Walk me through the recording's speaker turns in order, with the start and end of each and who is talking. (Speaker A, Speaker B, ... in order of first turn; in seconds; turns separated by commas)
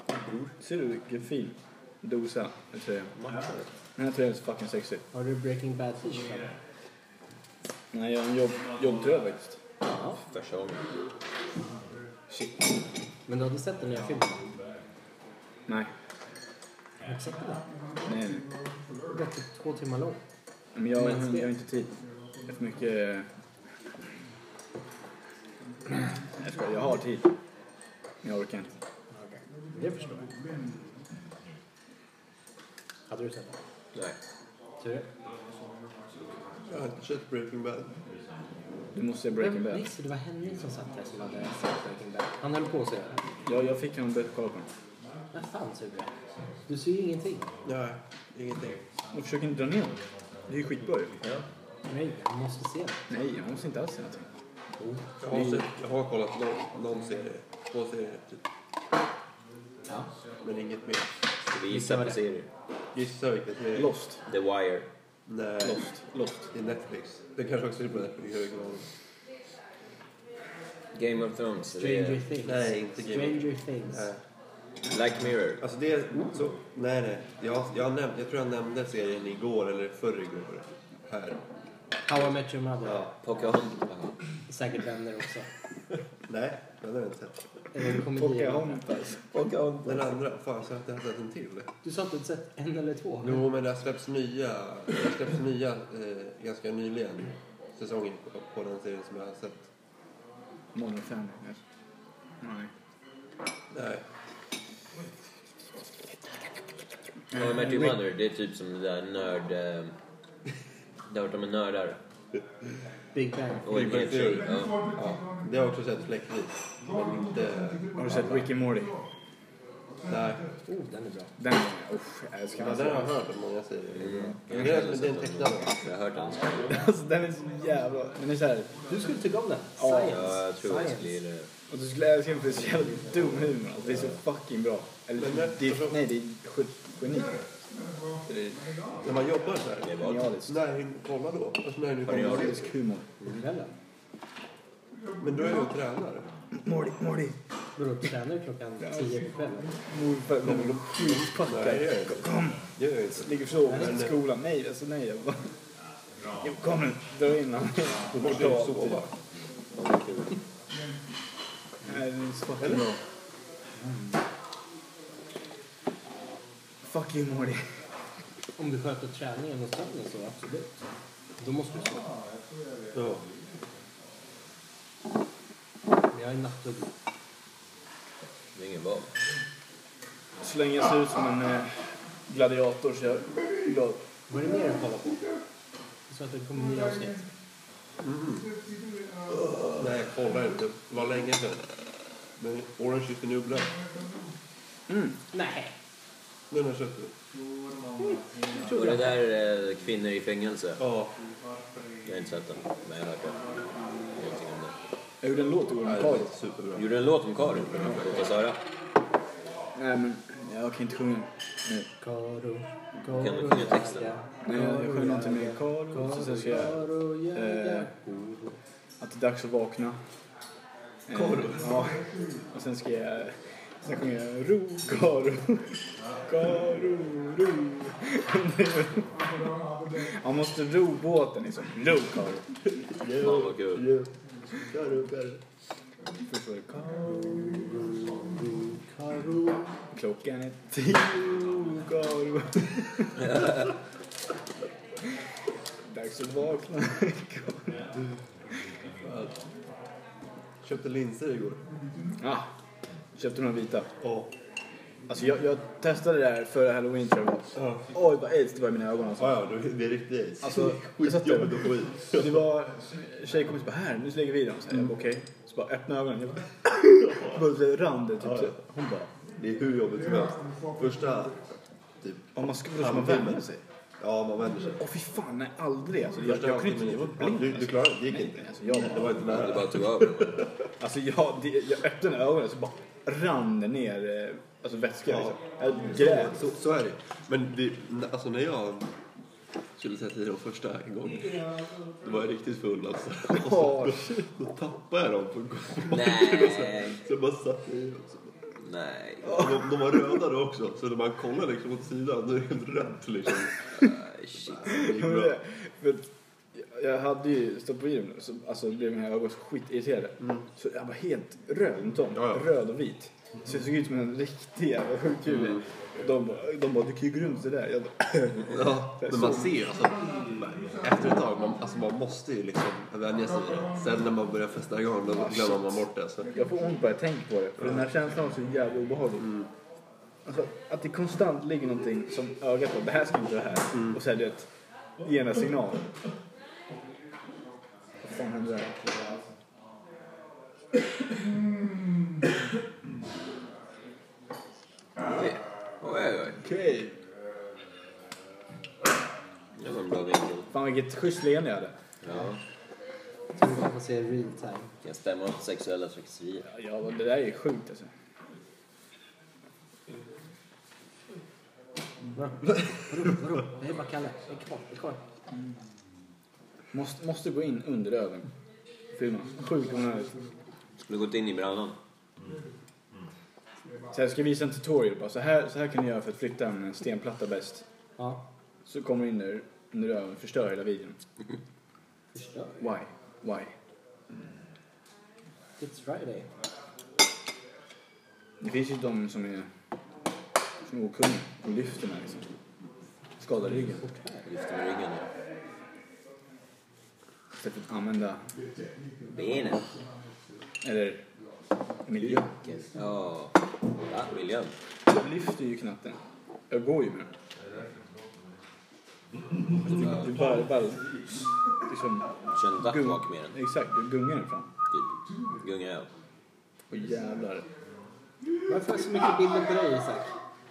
Speaker A: 0.6-3.2, Speaker A: 4.0-5.0, Speaker B: 5.1-6.6, Speaker A: 7.9-9.6, Speaker B: 9.8-10.2, Speaker C: 10.0-10.8, Speaker A: 12.3-12.6, Speaker B: 13.3-14.5, Speaker B: 17.0-17.7, Speaker A: 18.1-18.5, Speaker B: 19.1-20.2, Speaker A: 20.8-23.3, Speaker B: 20.9-21.5, Speaker A: 25.9-27.3, Speaker A: 28.2-28.7, Speaker B: 29.1-30.3, Speaker B: 33.1-33.6, Speaker B: 34.8-35.1, Speaker D: 36.6-37.9, Speaker A: 38.9-39.9, Speaker B: 39.4-43.2, Speaker A: 43.5-44.7, Speaker B: 45.3-46.1, Speaker B: 46.7-47.5, Speaker D: 47.6-48.8, Speaker A: 49.1-51.2, Speaker B: 51.9-53.0, Speaker A: 53.1-54.3, Speaker D: 55.2-58.4, Speaker A: 55.3-55.7, Speaker D: 60.4-61.1, Speaker C: 61.5-62.5, Speaker B: 61.7-62.2, Speaker D: 62.9-63.9, Speaker A: 63.7-64.2, Speaker C: 64.3-64.9, Speaker D: 65.3-65.9, Speaker A: 65.6-66.5, Speaker D: 66.5-68.9, Speaker C: 70.9-72.2, Speaker B: 71.7-74.1, Speaker D: 72.4-74.2, Speaker C: 74.9-75.6, Speaker D: 75.6-81.4, Speaker B: 82.0-83.4, Speaker D: 82.8-83.2, Speaker C: 83.2-84.2, Speaker B: 84.5-85.5, Speaker D: 86.3-87.5, Speaker B: 87.7-88.8, Speaker A: 88.0-89.4, Speaker C: 89.3-90.1, Speaker D: 89.8-91.7, Speaker B: 91.8-93.4, Speaker D: 93.2-99.7, Speaker A: 100.7-101.6, Speaker A: 102.4-102.7, Speaker D: 103.7-104.0, Speaker A: 107.3-108.0, Speaker C: 107.3-109.9, Speaker C: 111.1-112.0, Speaker B: 113.1-113.9, Speaker C: 113.7-114.8, Speaker A: 113.7-114.3, Speaker D: 113.7-118.5, Speaker A: 118.0-119.0, Speaker D: 120.1-120.5, Speaker B: 120.7-121.3, Speaker A: 121.4-123.1, Speaker D: 122.6-125.9, Speaker C: 123.9-126.7, Speaker A: 126.6-128.8, Speaker B: 128.9-131.2, Speaker A: 129.8-130.2, Speaker C: 130.1-131.5, Speaker A: 131.7-137.5, Speaker D: 135.2-136.0, Speaker A: 138.2-138.6, Speaker D: 139.0-142.7, Speaker C: 139.8-140.3, Speaker A: 139.9-140.6, Speaker C: 142.1-142.6, Speaker A: 142.1-143.1, Speaker B: 143.3-143.7, Speaker D: 145.2-146.3, Speaker A: 146.5-147.4, Speaker B: 147.8-149.8, Speaker A: 148.8-149.2, Speaker A: 149.8-155.5, Speaker D: 150.4-154.2, Speaker B: 153.7-154.0, Speaker A: 156.4-159.1, Speaker D: 158.1-159.1, Speaker C: 159.8-160.3, Speaker A: 161.8-163.0, Speaker A: 166.8-167.7, Speaker B: 168.6-170.8, Speaker B: 171.4-172.1, Speaker D: 172.9-173.2, Speaker B: 176.1-176.9, Speaker C: 178.6-179.1, Speaker A: 180.4-184.0, Speaker B: 184.3-185.2, Speaker B: 186.1-187.3, Speaker D: 188.0-188.5, Speaker D: 189.7-191.7, Speaker D: 192.4-193.8, Speaker A: 194.9-195.2, Speaker B: 195.3-195.7, Speaker D: 196.5-197.1, Speaker B: 198.0-199.2, Speaker C: 198.6-200.8, Speaker D: 200.8-201.2, Speaker C: 202.1-203.4, Speaker C: 204.2-204.8, Speaker A: 205.2-206.3, Speaker D: 205.8-206.9, Speaker C: 206.8-208.6, Speaker D: 207.7-208.2, Speaker A: 209.7-211.9, Speaker B: 212.0-218.6, Speaker C: 213.1-214.1, Speaker A: 214.4-216.8, Speaker A: 217.3-217.9, Speaker A: 219.0-220.0, Speaker A: 221.1-229.2, Speaker D: 221.1-221.8, Speaker A: 229.8-232.5, Speaker D: 232.8-235.4, Speaker C: 233.2-233.9, Speaker A: 236.3-237.0, Speaker D: 236.9-238.8, Speaker B: 238.9-239.6, Speaker A: 239.9-243.5, Speaker A: 245.8-247.9, Speaker D: 249.0-249.4, Speaker D: 250.6-251.7, Speaker A: 252.2-252.5, Speaker A: 253.2-253.9, Speaker D: 254.0-254.3, Speaker A: 255.1-259.4, Speaker D: 257.6-257.9, Speaker D: 259.2-262.4, Speaker A: 260.4-269.1, Speaker D: 267.1-267.4, Speaker D: 268.2-268.6, Speaker D: 269.4-271.5, Speaker D: 272.0-273.4, Speaker A: 272.4-273.6, Speaker D: 274.0-274.8, Speaker A: 274.8-279.4, Speaker D: 276.2-280.5, Speaker C: 279.2-280.5, Speaker A: 280.8-286.4, Speaker D: 285.1-288.9, Speaker D: 289.8-298.3, Speaker A: 293.3-294.2, Speaker C: 295.9-297.0, Speaker C: 298.6-299.4, Speaker D: 299.2-303.9, Speaker C: 303.9-304.7, Speaker D: 304.5-305.4, Speaker A: 304.7-319.5, Speaker D: 312.2-312.4, Speaker D: 318.4-326.3, Speaker A: 325.1-329.4, Speaker A: 330.2-335.9, Speaker A: 338.0-338.9, Speaker C: 345.1-346.4, Speaker A: 346.4-347.0, Speaker C: 349.6-350.5, Speaker A: 350.5-351.8, Speaker C: 352.0-352.4, Speaker B: 353.4-354.7, Speaker C: 354.8-356.5, Speaker A: 356.4-357.9, Speaker B: 362.2-365.0, Speaker A: 366.7-368.3, Speaker A: 368.9-370.1, Speaker C: 370.8-371.8, Speaker A: 373.9-377.7, Speaker B: 378.0-378.2, Speaker A: 378.6-381.0, Speaker B: 382.1-382.6, Speaker A: 382.6-383.6, Speaker B: 385.6-386.3, Speaker A: 388.4-389.5, Speaker A: 390.6-392.3, Speaker A: 393.2-393.8, Speaker B: 393.4-394.3, Speaker C: 394.3-395.1, Speaker A: 397.4-398.3, Speaker C: 399.1-399.7, Speaker A: 400.6-401.0, Speaker A: 401.9-402.3, Speaker C: 402.0-404.6, Speaker A: 404.9-407.1, Speaker A: 409.6-411.0, Speaker C: 409.7-410.1, Speaker A: 411.6-414.5, Speaker C: 412.3-413.4, Speaker C: 414.7-415.9, Speaker A: 416.7-417.5, Speaker B: 418.5-420.1